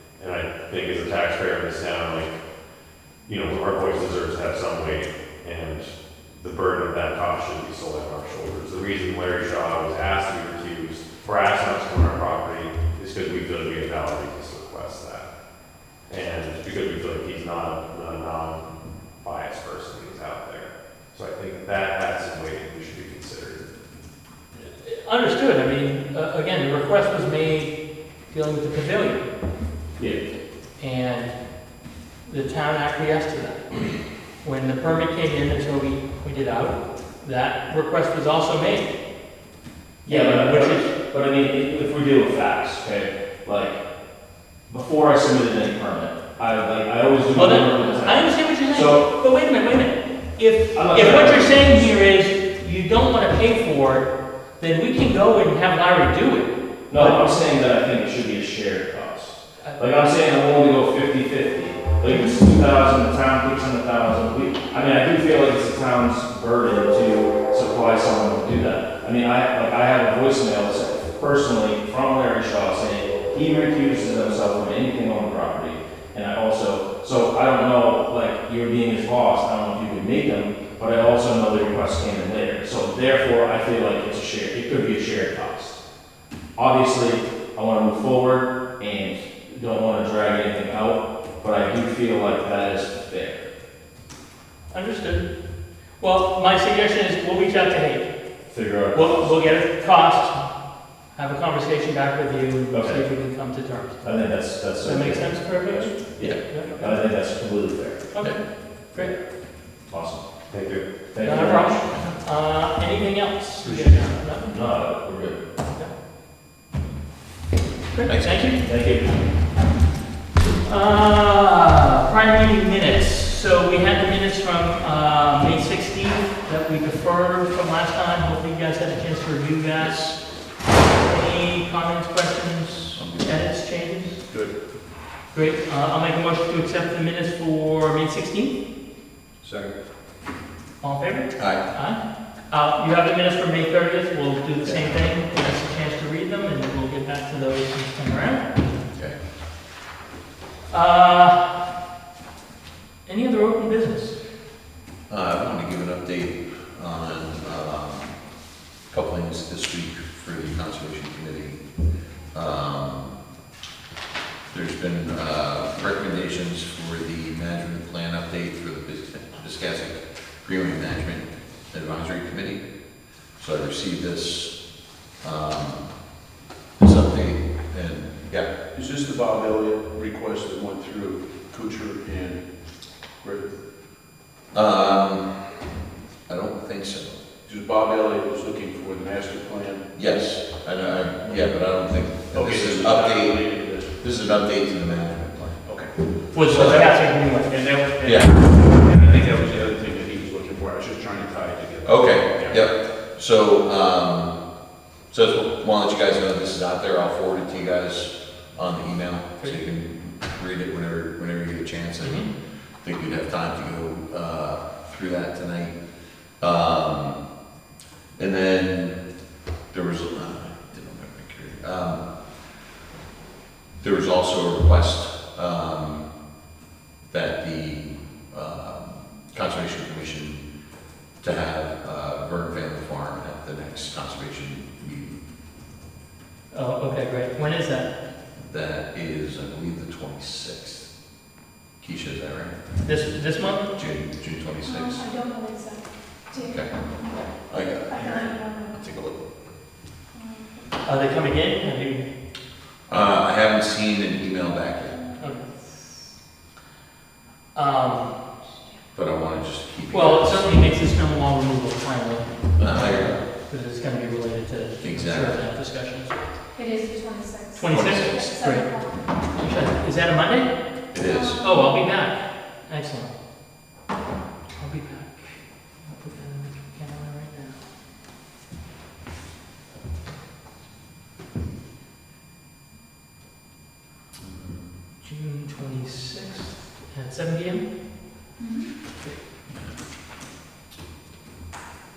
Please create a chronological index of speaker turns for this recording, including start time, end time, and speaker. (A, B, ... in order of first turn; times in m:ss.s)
0:00.2-0:02.3 A
0:03.3-0:15.3 A
0:16.1-0:23.7 A
0:24.7-0:27.8 B
0:28.3-0:29.3 B
0:30.8-0:31.4 B
0:32.2-0:38.9 B
0:40.0-0:40.9 B
0:40.1-0:43.8 C
0:44.7-0:49.1 C
0:47.3-0:57.3 B
0:50.7-0:51.9 C
0:56.9-1:25.8 C
1:26.6-1:33.4 C
1:34.7-1:35.3 B
1:36.0-1:38.1 B
1:38.5-1:39.3 C
1:38.9-1:40.4 B
1:41.1-1:44.1 B
1:42.7-1:43.0 C
1:44.0-1:48.0 C
1:44.8-1:47.0 B
1:48.1-1:49.1 B
1:49.9-1:50.2 C
1:50.5-1:50.8 A
1:51.1-1:51.8 C
1:51.2-1:54.6 B
1:54.4-1:55.4 C
1:57.9-1:58.6 B
1:58.1-1:58.5 D
1:58.6-1:59.2 C
2:00.6-2:10.2 B
2:09.8-2:10.2 D
2:11.0-2:14.2 B
2:13.0-2:13.3 D
2:14.3-2:14.6 E
2:15.3-2:18.6 B
2:20.8-2:28.5 B
2:21.4-2:21.7 D
2:24.6-2:25.0 D
2:28.9-2:29.2 D
2:30.7-2:31.5 B
2:33.1-2:34.2 B
2:35.1-2:38.2 D
2:38.9-2:41.6 D
2:42.3-2:43.2 D
2:44.5-2:52.7 D
2:53.3-2:56.2 D
2:56.8-2:58.5 D
2:58.7-3:03.6 E
3:04.5-3:05.7 D
3:06.3-3:07.2 D
3:07.5-3:09.9 E
3:09.9-3:15.6 D
3:12.3-3:14.0 E
3:15.6-3:22.6 E
3:16.3-3:17.8 B
3:16.4-3:16.8 D
3:18.0-3:18.4 D
3:21.8-3:24.4 D
3:25.1-3:35.8 D
3:32.0-3:32.3 B
3:36.4-3:37.2 D
3:38.2-3:39.0 D
3:39.7-3:42.0 D
3:43.8-3:46.1 D
3:47.1-3:50.4 D
3:51.2-3:55.2 D
3:56.5-3:57.9 B
3:58.4-4:00.9 D
4:01.8-4:03.1 D
4:02.8-4:03.7 B
4:03.7-4:05.1 D
4:04.6-4:07.2 F
4:06.4-4:09.3 D
4:07.9-4:08.7 F
4:10.1-4:10.6 F
4:10.8-4:12.1 B
4:12.9-4:15.0 D
4:17.6-4:18.1 B
4:18.9-4:20.5 D
4:19.9-4:26.3 B
4:22.6-4:23.2 D
4:24.8-4:25.4 D
4:26.5-4:29.1 F
4:27.6-4:30.7 B
4:27.7-4:28.2 D
4:30.9-4:31.4 D
4:31.0-4:31.7 F
4:31.4-4:33.1 B
4:34.6-4:37.6 B
4:44.2-4:44.7 D
4:45.0-4:47.7 B
4:48.4-4:48.7 F